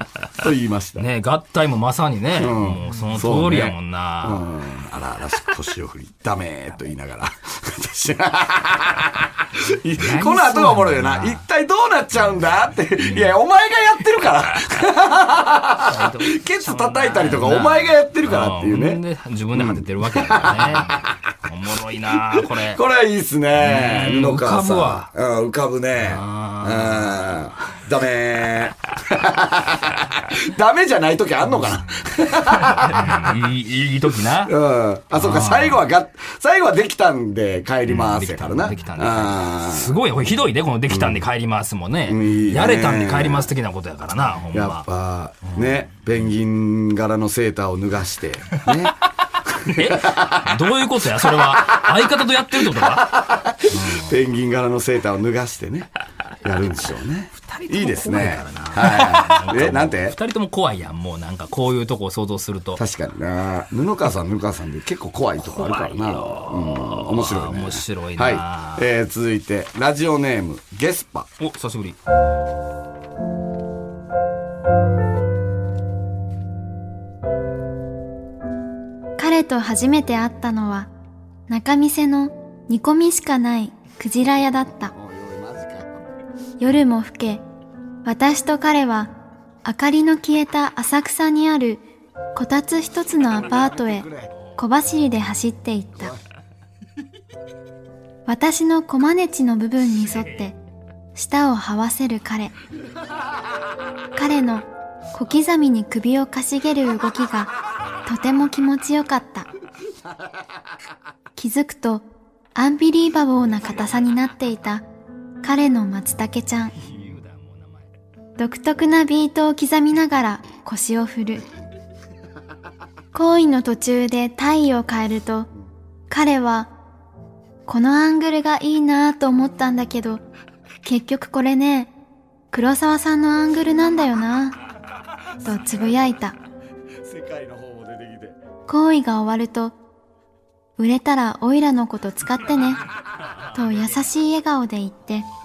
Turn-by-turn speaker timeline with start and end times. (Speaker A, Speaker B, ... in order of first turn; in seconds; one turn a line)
Speaker A: 0.4-1.1
Speaker B: 1.0-4.5
Speaker A: 2.4-19.0
Speaker B: 10.0-11.4
Speaker B: 13.0-13.4
Speaker B: 15.8-22.8
Speaker A: 19.5-21.1
Speaker A: 22.3-33.3
Speaker B: 23.6-25.1
Speaker B: 26.0-27.4
Speaker B: 32.5-34.5
Speaker A: 34.5-39.9
Speaker B: 35.2-35.8
Speaker B: 37.9-44.8
Speaker A: 40.9-41.2
Speaker A: 42.1-43.5
Speaker A: 44.5-49.0
Speaker B: 45.4-45.8
Speaker A: 49.5-50.6
Speaker B: 49.7-54.1
Speaker A: 51.4-51.9
Speaker A: 52.8-55.9
Speaker A: 56.4-60.2
Speaker B: 57.4-62.8
Speaker A: 62.8-71.3
Speaker B: 65.4-68.9
Speaker B: 71.4-72.0
Speaker C: 79.2-80.9
Speaker C: 81.5-84.9
Speaker A: 84.9-86.0
Speaker C: 86.6-87.4
Speaker C: 88.0-89.1
Speaker C: 89.7-91.8
Speaker C: 92.3-96.1
Speaker A: 93.6-94.3
Speaker C: 98.3-100.6
Speaker C: 101.2-102.5
Speaker C: 104.2-107.5
Speaker C: 108.1-109.5
Speaker C: 111.4-114.8
Speaker C: 115.4-116.8
Speaker B: 116.8-117.9
Speaker C: 118.4-121.5
Speaker C: 123.1-125.5
Speaker C: 126.1-126.7
Speaker C: 127.7-130.2
Speaker C: 130.8-131.9
Speaker C: 132.5-134.6
Speaker C: 135.4-136.4
Speaker A: 137.1-138.4
Speaker C: 138.7-139.8
Speaker C: 140.8-142.8
Speaker C: 143.6-145.3